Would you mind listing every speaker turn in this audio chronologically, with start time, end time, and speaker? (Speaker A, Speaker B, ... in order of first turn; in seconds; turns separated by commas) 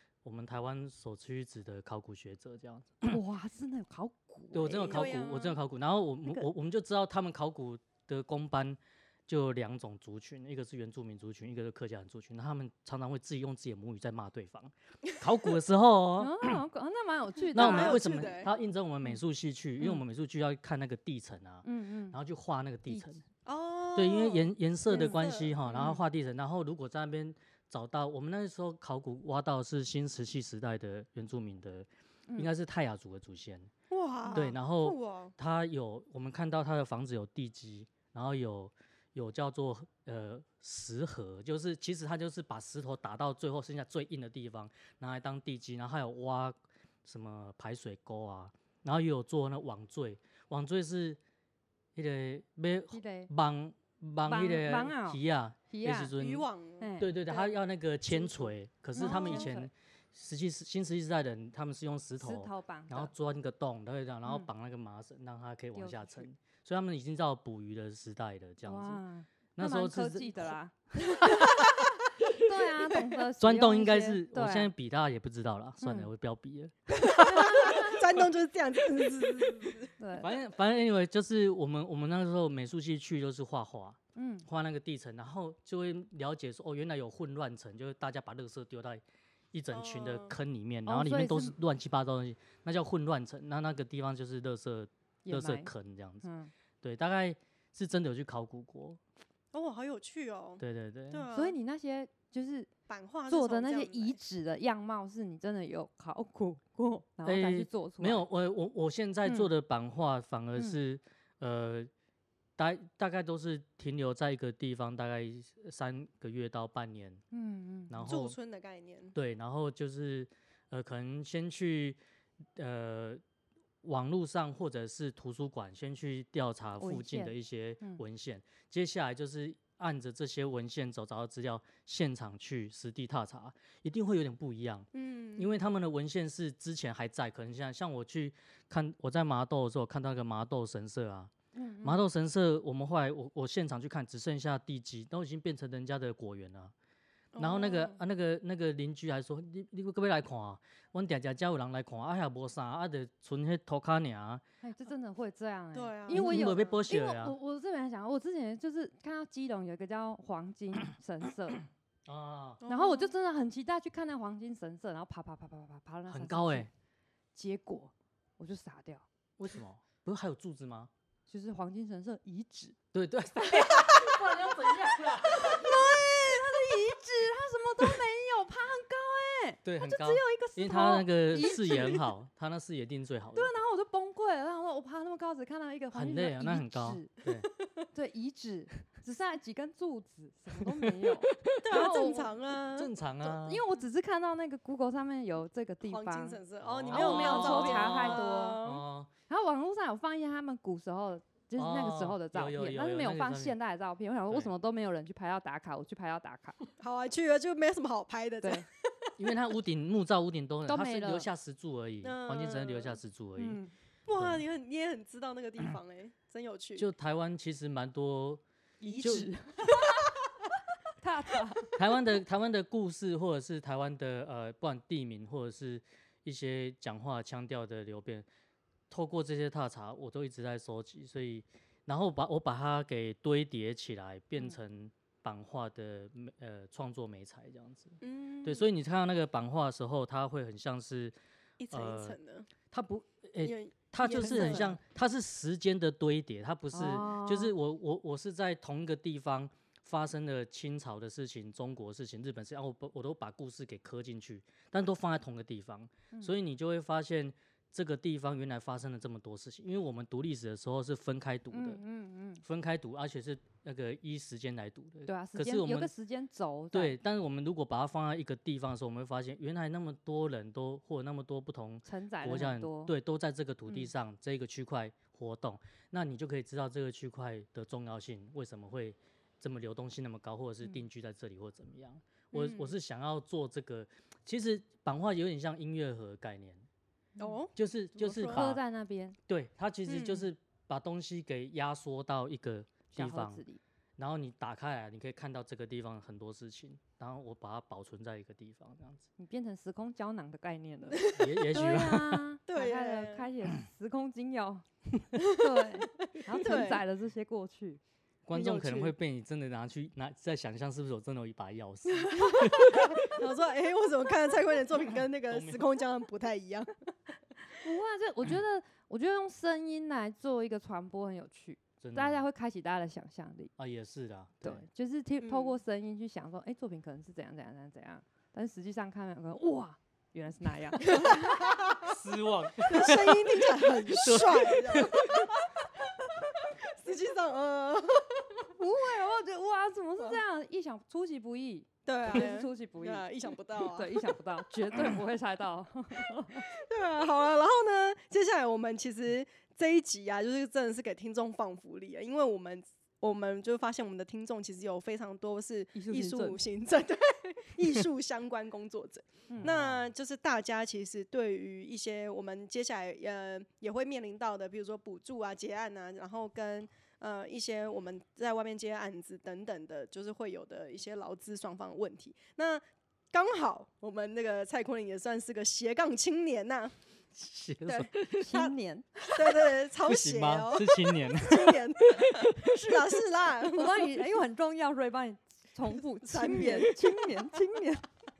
Speaker A: 0.2-3.2, Speaker B: 3.0-5.2, Speaker A: 4.5-16.6, Speaker C: 4.8-5.6, Speaker B: 16.2-18.3, Speaker C: 17.5-18.5, Speaker A: 17.5-23.2, Speaker B: 21.6-22.1, Speaker B: 22.9-23.1, Speaker C: 23.4-25.9, Speaker A: 23.9-33.7, Speaker B: 25.7-26.0, Speaker C: 33.9-35.3, Speaker A: 34.3-51.2, Speaker A: 51.9-56.5, Speaker B: 52.9-53.3, Speaker B: 54.2-56.1, Speaker C: 56.2-59.5, Speaker B: 56.8-57.1, Speaker A: 57.0-69.0, Speaker B: 58.9-59.7, Speaker B: 62.2-63.1, Speaker B: 65.7-66.3, Speaker B: 68.6-71.5, Speaker A: 69.5-72.0, Speaker B: 72.2-74.7, Speaker A: 73.4-78.2, Speaker B: 75.8-76.1, Speaker C: 77.0-79.9, Speaker B: 77.3-78.0, Speaker B: 80.0-80.3, Speaker A: 80.2-96.2, Speaker B: 84.2-84.5, Speaker C: 89.7-90.3, Speaker B: 90.8-91.5, Speaker B: 95.2-95.7, Speaker B: 96.2-96.5, Speaker A: 96.8-99.0, Speaker C: 99.5-101.6, Speaker A: 100.6-101.3, Speaker B: 101.3-102.7, Speaker C: 102.9-104.2, Speaker B: 103.3-108.2, Speaker A: 107.2-111.9, Speaker A: 112.6-117.2, Speaker B: 117.3-118.1, Speaker A: 117.9-118.3, Speaker C: 118.0-119.1, Speaker A: 119.1-122.0, Speaker A: 122.5-123.2, Speaker A: 123.8-141.3, Speaker B: 126.8-128.0, Speaker C: 134.9-135.5, Speaker B: 141.5-142.0, Speaker A: 141.8-146.7, Speaker C: 147.3-148.0, Speaker A: 147.4-154.4, Speaker B: 154.6-161.6, Speaker C: 155.7-156.6, Speaker A: 156.1-157.3, Speaker A: 162.1-162.6, Speaker C: 162.6-163.1, Speaker B: 162.7-166.7, Speaker A: 166.1-166.7, Speaker B: 167.3-169.1, Speaker A: 169.4-170.9, Speaker B: 171.3-172.8, Speaker A: 172.9-176.3, Speaker B: 175.0-182.0, Speaker A: 179.6-183.5, Speaker B: 183.3-187.1, Speaker A: 185.9-187.5, Speaker B: 187.9-192.3, Speaker A: 190.8-191.6, Speaker C: 191.6-192.9, Speaker A: 192.7-193.6, Speaker B: 193.2-196.4, Speaker C: 195.8-198.8, Speaker A: 196.6-199.1, Speaker B: 196.9-198.6, Speaker B: 199.3-206.6, Speaker A: 201.6-203.6, Speaker C: 206.8-209.1, Speaker A: 209.2-213.6, Speaker B: 210.7-211.3, Speaker C: 212.0-213.0, Speaker B: 213.4-213.7, Speaker C: 214.1-216.9, Speaker A: 216.8-218.4, Speaker B: 218.8-220.1, Speaker C: 218.9-220.2, Speaker A: 219.0-219.3, Speaker B: 221.0-221.7, Speaker A: 221.7-228.2, Speaker A: 228.9-241.1, Speaker C: 238.0-238.7, Speaker C: 241.6-242.5, Speaker A: 241.7-261.8, Speaker C: 243.4-244.8, Speaker B: 244.3-244.7, Speaker B: 246.7-247.5, Speaker B: 261.5-262.4, Speaker A: 262.4-265.9, Speaker B: 265.1-267.0, Speaker A: 266.7-286.6, Speaker B: 271.8-272.9, Speaker C: 282.3-282.7, Speaker C: 287.2-288.5, Speaker A: 287.5-288.6, Speaker B: 288.2-289.2, Speaker A: 289.3-293.4, Speaker C: 289.9-290.3, Speaker B: 292.9-293.6, Speaker A: 294.0-299.1, Speaker B: 299.2-307.8, Speaker C: 300.9-301.4, Speaker A: 301.1-302.3, Speaker C: 302.5-303.3, Speaker C: 306.1-306.8, Speaker A: 308.2-313.1, Speaker C: 308.3-308.9, Speaker B: 312.2-312.8, Speaker C: 312.7-316.7, Speaker A: 315.3-315.6, Speaker B: 317.5-323.5, Speaker A: 321.8-322.2, Speaker A: 323.6-324.6, Speaker B: 324.4-331.6, Speaker C: 325.2-325.6, Speaker C: 331.0-331.9, Speaker A: 331.8-335.3, Speaker C: 332.6-335.7, Speaker C: 336.2-338.5, Speaker B: 338.5-343.1, Speaker C: 341.9-344.2, Speaker B: 343.6-346.5, Speaker C: 346.4-376.7, Speaker B: 355.7-356.4, Speaker A: 359.4-359.9, Speaker A: 377.1-378.2, Speaker C: 377.6-378.5, Speaker B: 378.1-379.2, Speaker C: 379.1-383.9, Speaker A: 379.8-382.8, Speaker B: 383.5-387.9, Speaker C: 386.0-386.8